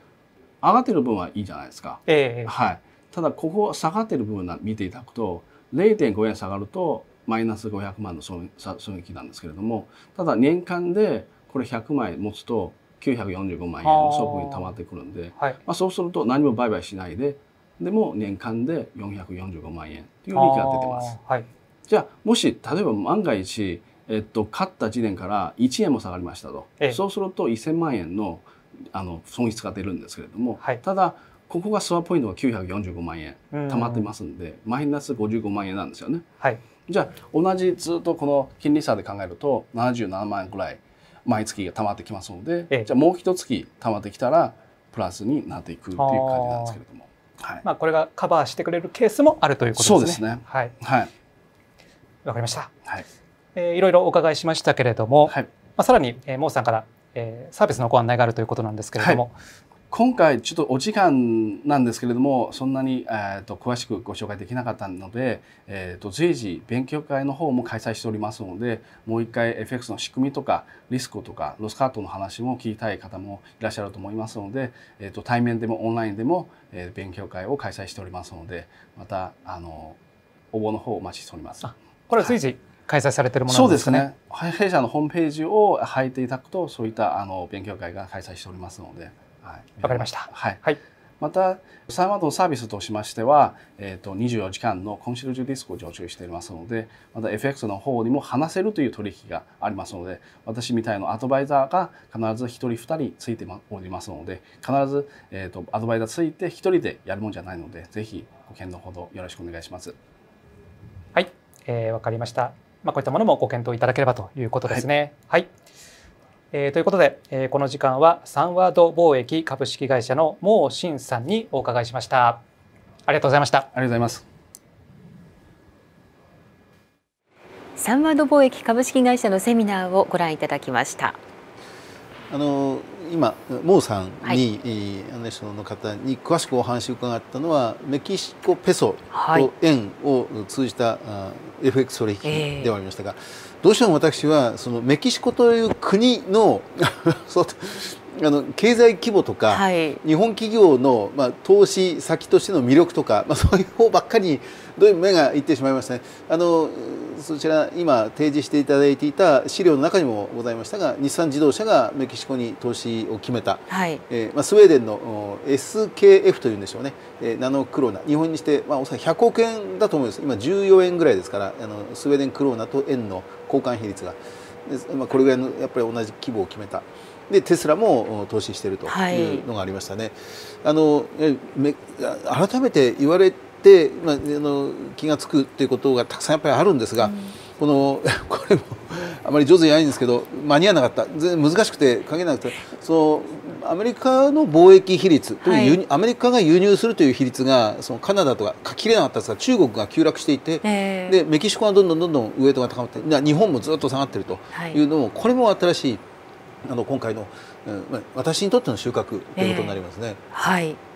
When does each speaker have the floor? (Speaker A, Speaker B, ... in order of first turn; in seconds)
Speaker A: 0.6-21.1, 21.9-36.2, 36.9-47.6, 49.8-51.1, 59.0-59.2, 59.9-80.0, 80.5-82.3, 83.5-90.6, 91.2-110.0, 123.7-124.2
Speaker B: 2.1-2.5, 13.8-14.7, 20.3-21.5, 33.5-34.1, 46.0-46.8, 47.6-50.7, 52.2-52.7, 53.5-59.4, 81.6-84.0, 89.8-90.8, 111.1-115.5, 116.5-122.4, 123.1-123.7
Speaker C: 127.8-131.2, 139.1-139.5, 142.2-142.7, 149.5-150.0, 163.7-164.0, 178.9-179.4, 187.0-187.3, 195.4-195.8, 200.6-201.2, 204.5-204.8, 209.4-209.8, 210.3-210.8
Speaker D: 132.3-206.0, 206.6-210.2